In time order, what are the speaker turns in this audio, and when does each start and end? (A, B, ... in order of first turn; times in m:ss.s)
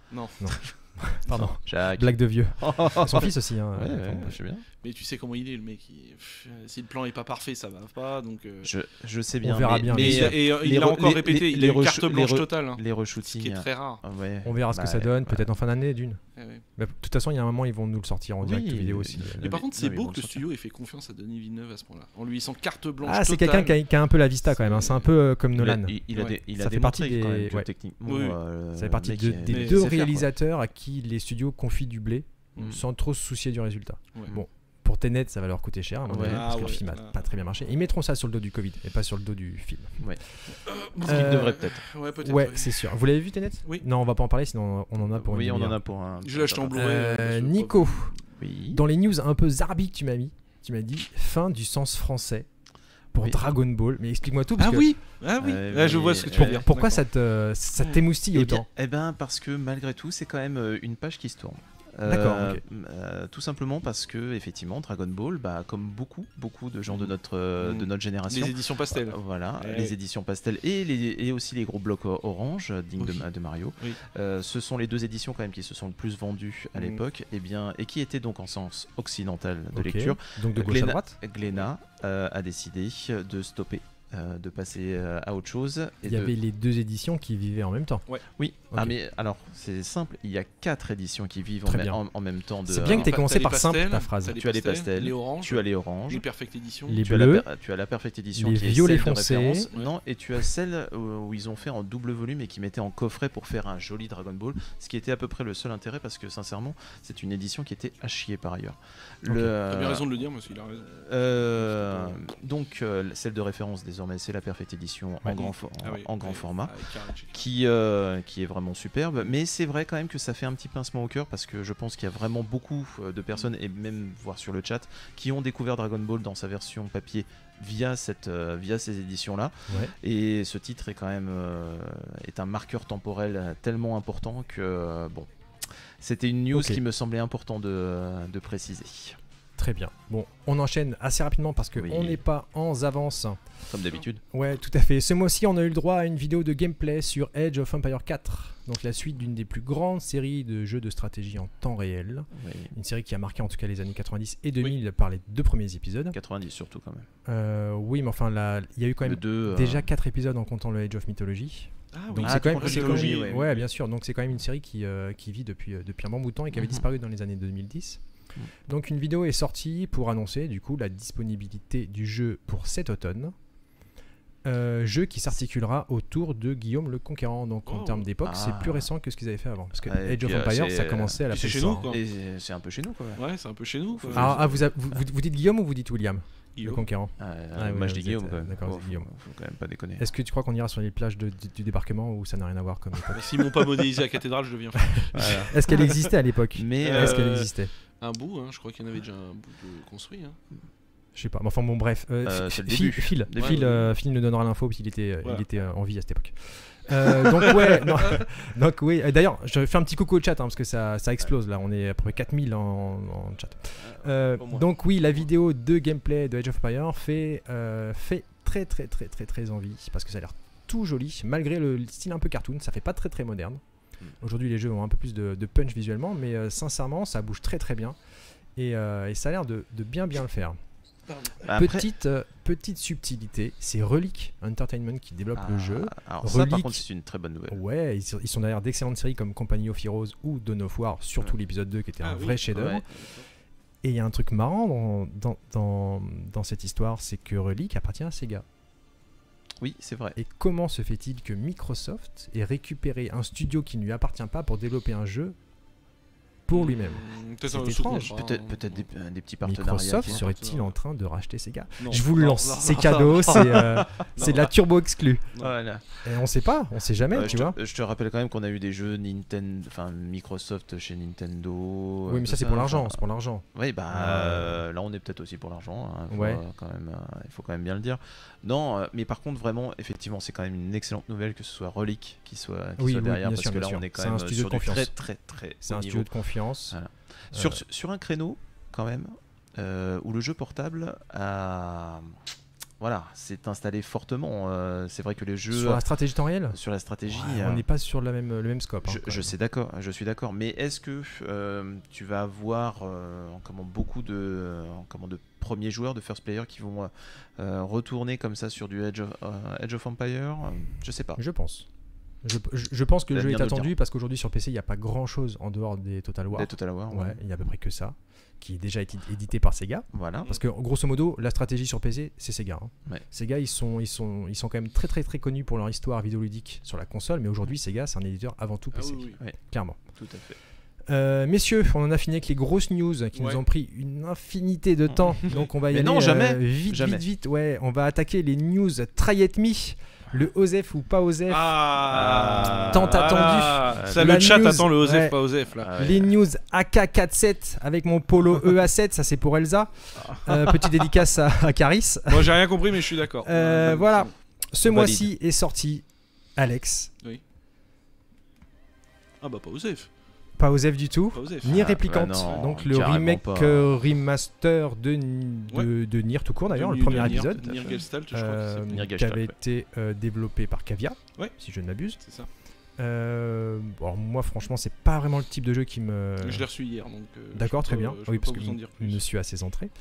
0:00.1-0:00.5 A
0:00.4-0:04.4 B
0:01.3-0:04.6 C
0:04.8-0:08.7 A
0:08.6-0:15.5 C
0:09.4-0:10.4 B
0:09.9-0:14.0 A
0:14.4-0:16.2 B
0:16.4-0:16.6 A
0:16.8-0:19.4 B
0:18.4-0:20.4 C
0:19.4-0:23.8 A
0:23.0-0:26.0 B
0:24.6-0:25.0 A
0:25.6-0:30.3 C
0:26.1-0:26.4 A
0:26.6-0:27.7 B
0:28.0-0:28.4 A
0:28.7-0:40.0 B
0:29.5-0:29.8 A
0:36.1-0:36.7 C
0:36.2-0:37.2 A
0:40.6-0:43.0 A
0:41.0-0:41.8 C
0:41.0-0:41.6 B
0:42.2-0:45.8 B
0:45.1-0:46.8 C
0:46.2-0:48.2 A
0:46.7-0:48.1 B
0:48.4-0:48.8 C
0:48.7-0:52.5 B
0:53.1-0:54.9 B
0:53.2-0:53.5 C
0:54.6-0:57.0 A
0:55.4-0:56.7 C
0:56.4-0:58.7 B
0:58.3-1:26.3 C
1:02.0-1:02.6 B
1:06.9-1:09.9 A
1:16.8-1:17.0 A
1:19.7-1:21.2 B
1:26.0-1:28.0 B
1:28.4-1:33.1 C
1:31.6-1:32.0 B
1:32.7-1:34.4 B
1:32.8-1:37.0 A
1:34.3-1:36.2 C
1:36.9-1:37.4 B
1:37.0-1:50.0 C
1:38.3-1:39.7 B
1:49.3-1:49.5 B
1:49.6-1:50.9 A
1:50.8-1:56.7 C
1:51.5-1:52.3 A
1:55.3-1:57.5 A
1:57.3-2:15.3 C
2:09.7-2:09.9 B
2:16.0-2:19.2 C
2:16.5-2:16.8 B
2:19.6-2:23.4 B
2:21.8-2:22.2 C
2:23.7-2:24.2 C
2:24.3-2:36.2 B
2:32.3-2:32.7 C
2:36.1-2:37.1 C
2:37.2-2:48.0 B
2:39.0-2:39.9 C
2:41.9-2:43.6 A
2:42.2-2:43.6 C
2:46.5-2:46.8 C
2:48.7-2:53.3 B
2:54.4-3:01.9 B
2:57.7-2:58.1 A
2:58.2-2:58.9 C
2:59.8-3:01.2 C
3:01.3-3:02.0 A
3:01.8-3:03.2 C
3:03.2-3:04.4 A
3:03.9-3:04.6 C
3:04.1-3:09.1 B
3:06.6-3:06.8 A
3:07.2-3:10.1 C
3:10.0-3:13.8 B
3:13.1-3:15.9 A
3:14.8-3:17.7 B
3:15.1-3:15.8 C
3:16.5-3:17.5 C
3:16.8-3:17.4 A
3:18.0-3:20.4 A
3:21.1-3:43.6 B
3:22.2-3:23.9 C
3:23.3-3:23.6 A
3:27.0-3:28.2 A
3:34.4-3:34.6 A
3:44.2-3:48.0 B
3:48.6-3:50.6 B
3:51.4-3:51.9 C
3:51.4-3:56.8 B
3:55.3-3:57.6 C
3:57.5-4:02.8 B
4:02.0-4:02.7 A
4:02.5-4:03.2 C
4:03.8-4:08.4 B
4:09.6-4:10.2 C
4:10.2-4:15.4 B
4:16.4-4:18.1 B
4:16.5-4:18.8 A
4:17.9-4:20.2 C
4:19.4-4:25.3 B
4:20.1-4:20.7 A
4:21.8-4:24.5 A
4:25.4-4:26.0 C
4:26.0-4:27.6 B
4:27.1-4:33.0 C
4:27.1-4:27.5 A
4:32.0-4:34.6 B
4:33.5-4:46.1 C
4:36.1-4:36.4 B
4:42.8-4:44.9 B
4:45.6-4:46.8 B
4:46.7-4:52.2 C
4:47.3-4:47.6 B
4:52.8-4:55.8 C
4:55.5-4:59.3 B
4:56.5-4:57.6 C
4:58.8-5:11.2 C
5:11.2-5:11.7 B
5:12.2-5:29.8 B
5:13.1-5:13.7 C
5:16.3-5:17.2 C
5:19.9-5:20.4 C
5:28.7-5:29.2 A
5:30.0-5:30.4 C
5:30.9-5:41.6 B
5:33.1-5:33.4 A
5:35.7-5:37.0 C
5:41.3-5:45.7 A
5:41.9-5:44.4 C
5:42.7-5:45.2 B
5:45.6-5:46.1 C
5:45.7-5:55.8 B
5:50.0-5:50.9 A
5:52.1-5:54.1 A
5:54.6-5:55.1 C
5:56.4-5:56.9 B
5:59.2-5:59.9 A
6:00.4-6:07.5 B
6:01.1-6:01.6 A
6:01.4-6:03.8 C
6:06.5-6:08.8 A
6:06.8-6:07.8 C
6:08.1-6:12.0 B
6:08.7-6:09.3 C
6:12.0-6:12.3 A
6:12.8-6:16.5 B
6:16.2-6:19.0 A
6:17.3-6:19.7 B